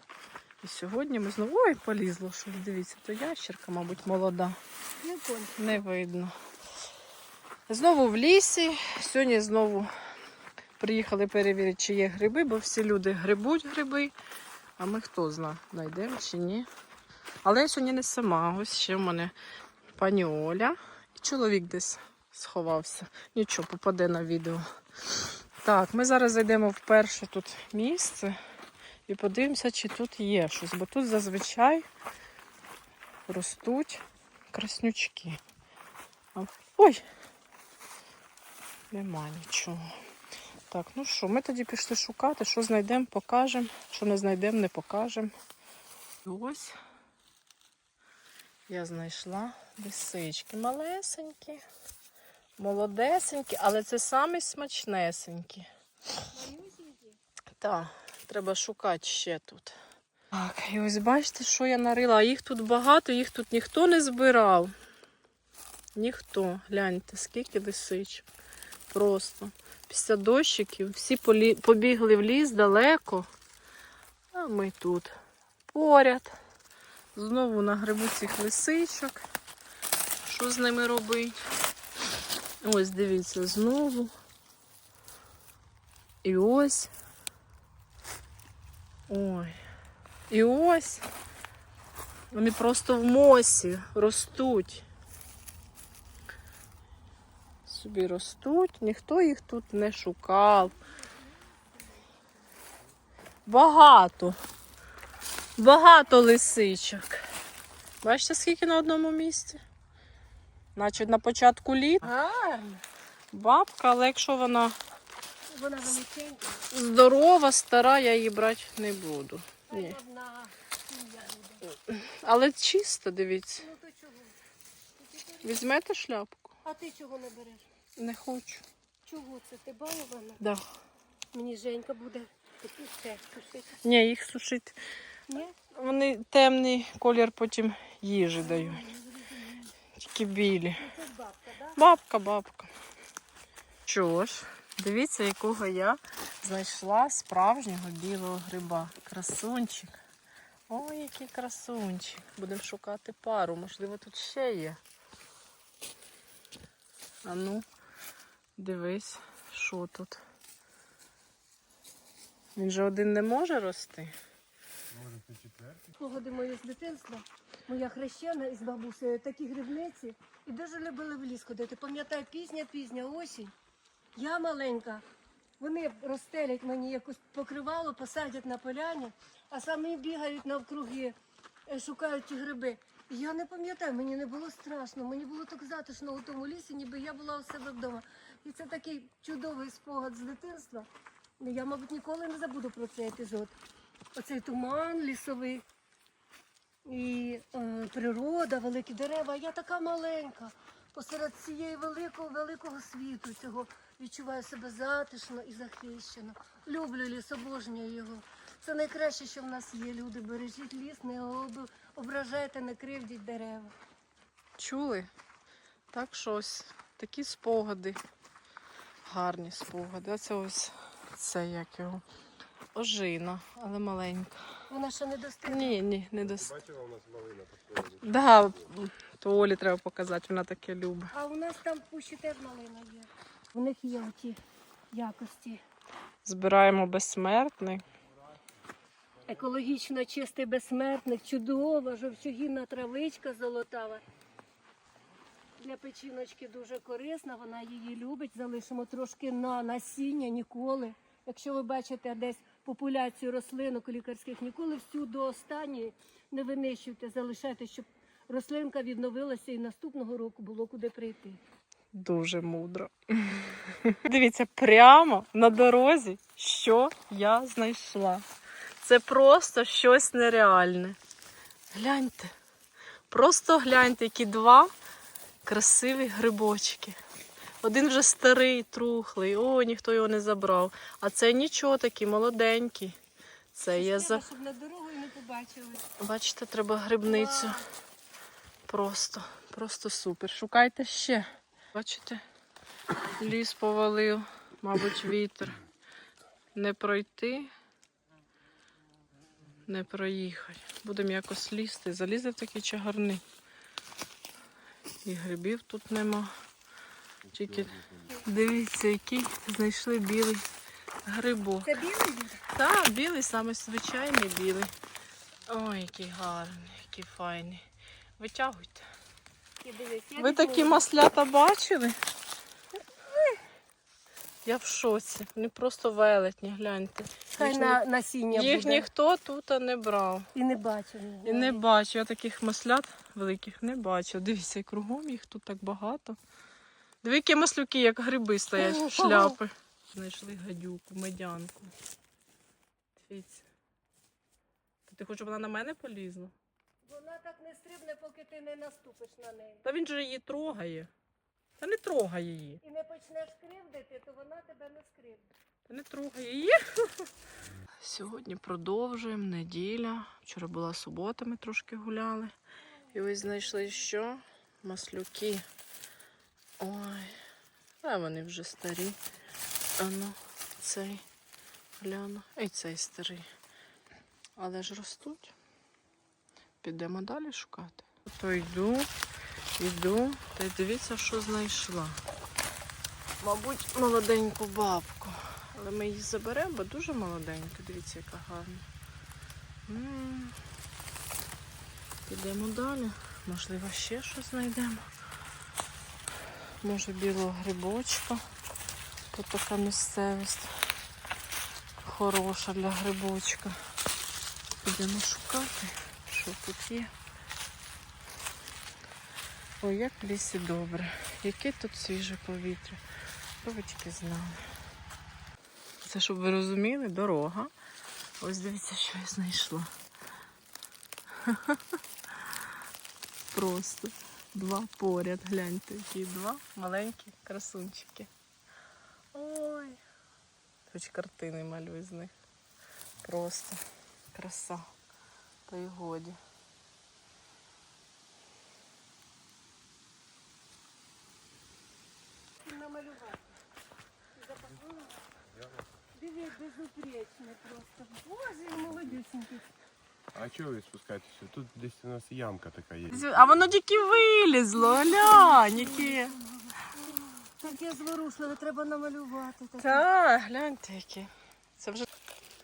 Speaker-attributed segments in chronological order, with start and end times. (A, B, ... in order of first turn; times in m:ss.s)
0:00.6-0:04.6 A
0:05.0-0:05.8 B
0:05.6-0:06.3 A
0:07.7-0:09.9 A
0:10.8-0:14.1 A
0:14.8-0:16.7 A
0:17.4-0:19.3 A
0:20.0-0:28.4 A
0:29.1-0:31.8 A
0:33.3-0:35.4 A
0:36.3-0:37.0 A
0:38.9-0:39.9 A
0:40.7-0:45.3 A
0:46.2-0:46.8 A
0:48.7-0:51.6 A
0:52.6-0:55.7 A
0:56.3-0:57.2 B
0:57.6-0:59.8 A
1:00.3-1:04.7 A
1:05.9-1:08.2 A
1:08.9-1:13.3 A
1:14.3-1:15.1 A
1:15.7-1:16.3 A
1:17.1-1:19.2 A
1:20.2-1:21.4 A
1:22.6-1:24.1 A
1:26.2-1:26.9 A
1:29.1-1:29.6 A
1:30.3-1:31.1 A
1:32.3-1:34.8 A
1:37.6-1:40.7 A
1:40.9-1:41.4 B
1:43.4-1:44.4 A
1:45.6-1:47.2 A
1:48.0-1:49.6 A
1:50.8-1:52.1 A
1:52.0-1:52.8 B
1:53.3-1:54.8 A
1:55.5-1:56.7 B
1:56.7-2:00.0 A
1:59.7-2:01.6 B
2:01.7-2:03.6 A
2:03.6-2:04.4 B
2:05.0-2:05.6 B
2:05.4-2:06.5 A
2:06.6-2:07.6 B
2:08.0-2:08.6 A
2:09.0-2:10.4 B
2:11.3-2:13.7 B
2:13.8-2:14.8 A
2:15.3-2:15.5 B
2:15.6-2:18.9 A
2:18.4-2:19.7 B
2:20.0-2:20.8 A
2:20.8-2:21.8 B
2:21.8-2:22.7 A
2:23.8-2:30.0 A
2:30.7-2:34.8 A
2:37.2-2:37.6 A
2:38.6-2:40.2 A
2:42.6-2:44.1 A
2:44.9-2:45.8 C
2:45.9-2:53.5 B
2:54.2-2:55.0 B
2:55.6-3:01.2 B
3:01.7-3:10.9 B
3:11.4-3:13.6 B
3:14.1-3:15.6 B
3:16.8-3:33.7 B
3:34.6-3:35.1 A
3:35.9-3:38.0 A
3:39.0-3:42.0 A
3:42.7-3:44.4 A
3:44.7-3:45.8 B
3:45.4-3:46.6 A
3:46.4-3:48.0 C
3:48.0-3:51.1 A
3:51.1-3:54.4 B
3:54.9-3:55.6 B
3:56.2-3:57.8 A
3:59.2-4:04.0 B
4:05.6-4:21.4 B
4:21.9-4:28.2 A
4:28.8-4:31.0 A
4:31.7-4:32.3 A
4:33.1-4:34.7 A
4:35.4-4:37.0 A
4:37.6-4:43.0 A
4:43.5-4:44.2 A
4:43.7-4:45.8 B
4:46.0-4:47.6 A
4:47.0-4:47.6 B
4:48.7-4:52.2 A
4:53.2-4:55.6 A
4:56.5-4:57.5 A
4:59.6-5:03.2 A
5:05.0-5:06.3 A
5:07.3-5:10.4 A
5:11.0-5:11.7 A
5:11.6-5:12.4 B
5:12.5-5:14.7 A
5:15.5-5:17.6 A
5:18.2-5:18.9 A
5:19.6-5:20.8 B
5:20.2-5:22.0 A
5:24.4-5:27.8 A
5:27.4-5:28.8 B
5:28.3-5:30.3 A
5:30.3-5:31.6 B
5:31.2-5:36.2 A
5:37.0-5:41.7 A
5:38.6-5:39.4 B
5:43.0-5:43.4 A
5:44.9-5:46.3 A
5:46.8-5:49.6 B
5:49.6-5:50.9 A
5:51.6-5:52.6 A
5:52.6-5:55.3 B
5:55.7-5:56.6 A
5:57.8-6:02.3 A
6:02.9-6:05.4 A
6:06.6-6:07.2 A
6:07.8-6:09.0 A
6:09.8-6:11.0 A
6:11.8-6:13.3 A
6:14.4-6:15.3 A
6:16.6-6:18.9 A
6:19.6-6:22.0 A
6:23.2-6:28.6 A
6:29.7-6:30.4 A
6:32.0-6:34.9 A
6:36.6-6:38.2 A
6:39.1-6:40.6 A
6:41.8-6:43.6 A
6:44.6-6:46.9 A
6:49.6-6:52.8 A
6:53.4-6:54.4 A
6:55.8-6:57.5 A
6:58.2-6:59.7 A
7:01.2-7:01.6 A
7:03.3-7:08.1 A
7:09.1-7:09.8 A
7:10.7-7:12.1 A
7:13.0-7:14.6 A
7:15.5-7:16.2 A
7:22.4-7:23.3 B
7:24.2-7:25.0 B
7:25.9-7:29.4 B
7:30.1-7:33.2 C
7:32.9-7:36.2 A
7:34.8-7:36.1 B
7:37.4-7:39.8 B
7:39.6-7:41.9 A